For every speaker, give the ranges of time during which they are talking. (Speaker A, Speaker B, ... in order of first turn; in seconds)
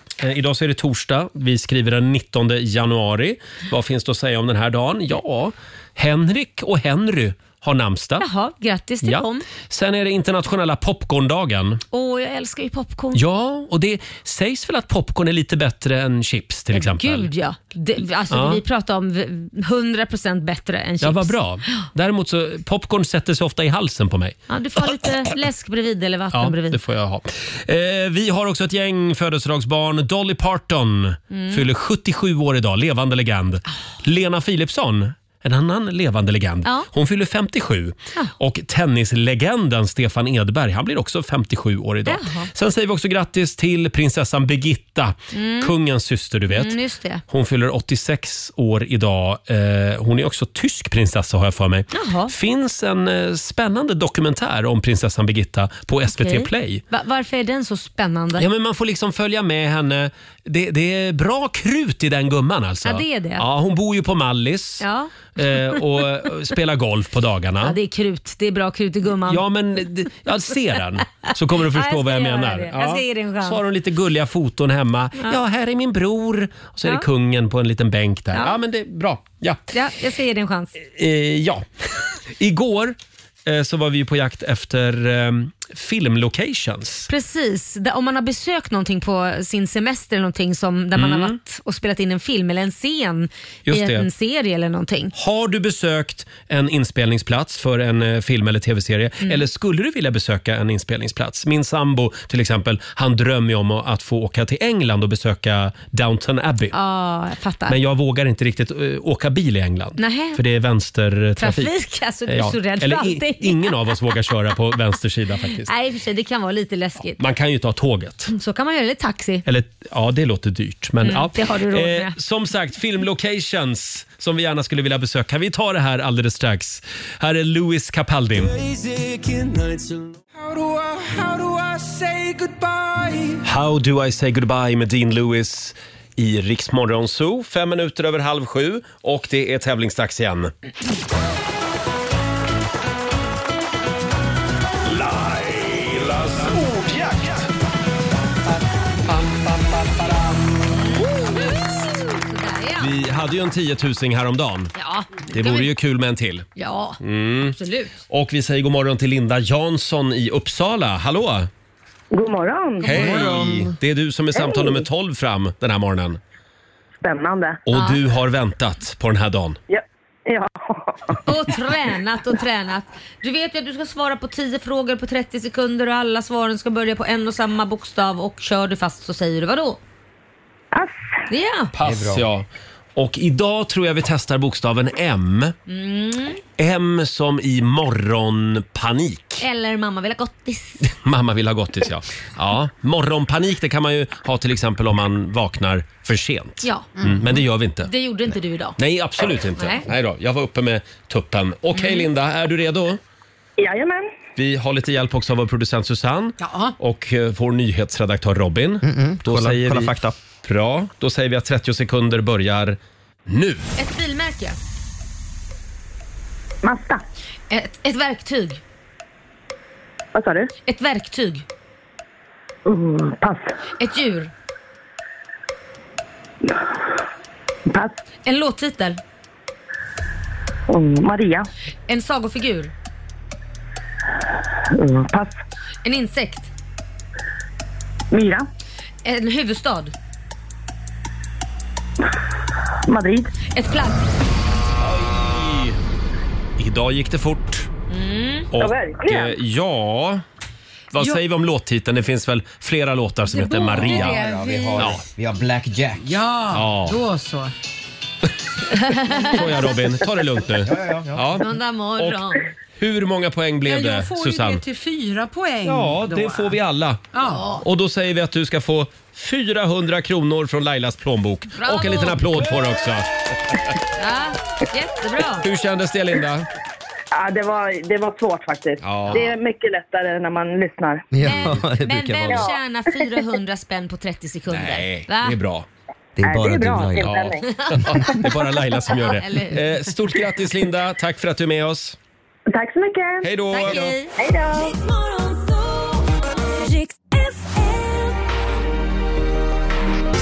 Speaker A: 0.2-8.3, 9.0-11.8, 13.2-17.3, 18.3-18.6, 21.0-25.1, 26.3-46.8, 47.3-56.8, 58.4-64.8, 65.4-67.8, 69.2-79.6, 80.9-87.1, 91.0-91.4, 93.7-94.1, 95.2-106.8, 107.7-111.7, 112.3-115.7, 117.2-118.3, 119.5-128.5, 133.4-140.5, 152.8-154.7, 155.3-156.5, 157.0-157.6, 158.1-161.5, 162.8-166.2, 167.7-169.6, 181.8-185.6, 186.6-189.4, 190.9-197.9, 198.8-203.0, 204.4-209.9, 210.4-213.7, 244.8-245.7, 246.6-247.7, 248.5-250.2, 250.9-254.2, 254.8-255.0, 256.5-257.0, 259.3-264.6, 265.6-267.0, 267.6-273.1, 275.4-276.5, 278.8-279.3, 284.5-285.7, 287.0-292.0, 293.2-293.9
Speaker B: 8.2-9.4, 11.9-13.2, 16.7-21.8, 24.5-26.8, 31.3-31.6, 42.1-42.5, 45.3-45.7, 46.5-47.2, 51.9-52.3, 56.2-58.5, 62.8-63.5, 64.8-65.8, 67.6-69.4, 71.6-73.6, 79.7-80.7, 87.1-95.1, 106.7-107.8, 110.0-110.4, 111.4-113.9, 115.6-117.2, 118.3-119.5, 121.0-122.2, 150.7-152.9, 154.8-155.7, 156.6-158.0, 162.9-163.3, 167.7-168.0, 171.2-179.8, 181.3-181.7, 185.7-186.4, 189.4-190.9, 196.6-196.9, 197.8-198.8, 199.6-199.8, 201.8-202.1, 213.8-214.6, 217.5-218.6, 220.7-221.4, 223.8-224.3, 228.2-229.0, 231.9-232.7, 235.8-236.5, 239.0-239.9, 243.5-244.1, 247.9-248.5, 258.7-259.7, 261.4-262.5, 267.2-267.6, 271.6-272.2, 274.0-275.5, 281.2-285.4, 287.4-287.9, 289.1-289.6, 293.5-294.1
Speaker C: 128.4-133.4, 144.9-147.5
Speaker D: 162.1-163.1, 164.4-164.9, 167.0-167.6, 169.7-171.2, 203.6-204.1, 216.6-217.0, 220.2-220.5, 222.7-223.6, 227.7-228.0, 230.7-231.5, 234.7-235.4, 238.1-238.4, 242.9-243.3, 248.6-249.4, 277.1-281.1, 282.2-282.6, 286.2-287.4, 292.5-293.3, 294.2-294.8
Speaker E: 162.9-163.8, 181.8-182.3, 208.8-210.2, 253.8-256.1, 260.6-261.4, 281.1-282.5, 286.2-287.2
Speaker F: 206.4-206.8, 253.3-254.9, 256.0-257.5, 263.6-266.5, 267.1-267.6
Speaker G: 294.8-298.2